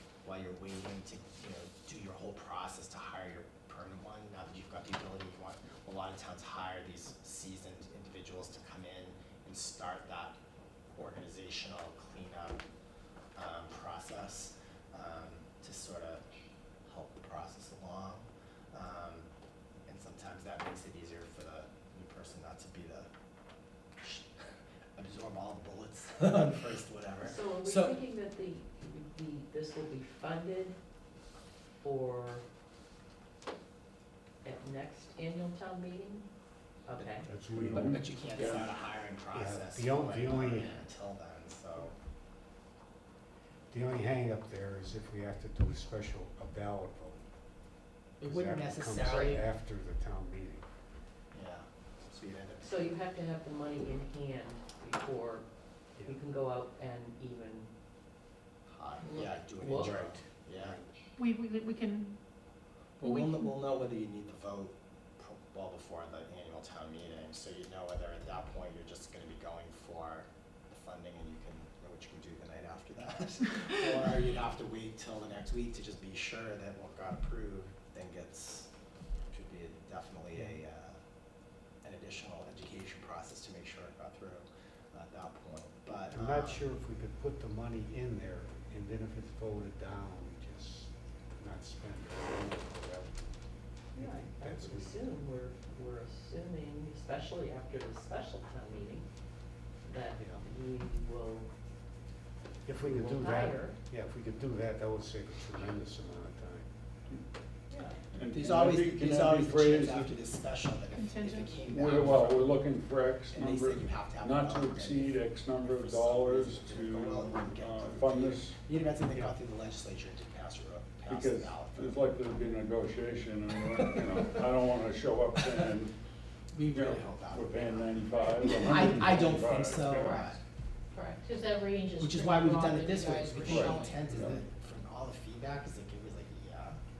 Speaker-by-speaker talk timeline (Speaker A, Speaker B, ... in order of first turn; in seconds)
Speaker A: 0.2-10.4, 10.9-12.6, 13.4-16.2, 16.9-19.3, 19.9-23.1, 25.0-28.0, 37.0-42.0, 48.2-49.5, 51.3-52.9, 58.7-60.8, 63.0-78.7, 79.3-81.0, 81.8-86.6, 108.3-112.6, 113.3-122.0, 123.7-124.3, 126.5-130.4, 132.0-136.8
Speaker B: 27.2-30.8, 31.8-32.5, 34.4-36.3, 36.9-37.3, 49.0-49.4, 52.6-57.7, 59.0-60.2, 93.9-99.1, 99.8-101.5, 102.8-103.8, 107.7-108.0
Speaker C: 37.2-38.5, 39.3-40.8, 43.7-47.3, 48.2-50.6, 59.8-60.9, 86.1-93.3, 94.0-95.0, 102.7-106.7
Speaker D: 37.5-38.7, 108.1-110.2, 111.6-118.6, 121.1-125.9, 126.7-130.3, 133.4-134.4
Speaker E: 61.2-62.1, 63.0-63.5, 111.0-111.6
Speaker F: 130.0-130.4, 130.9-134.2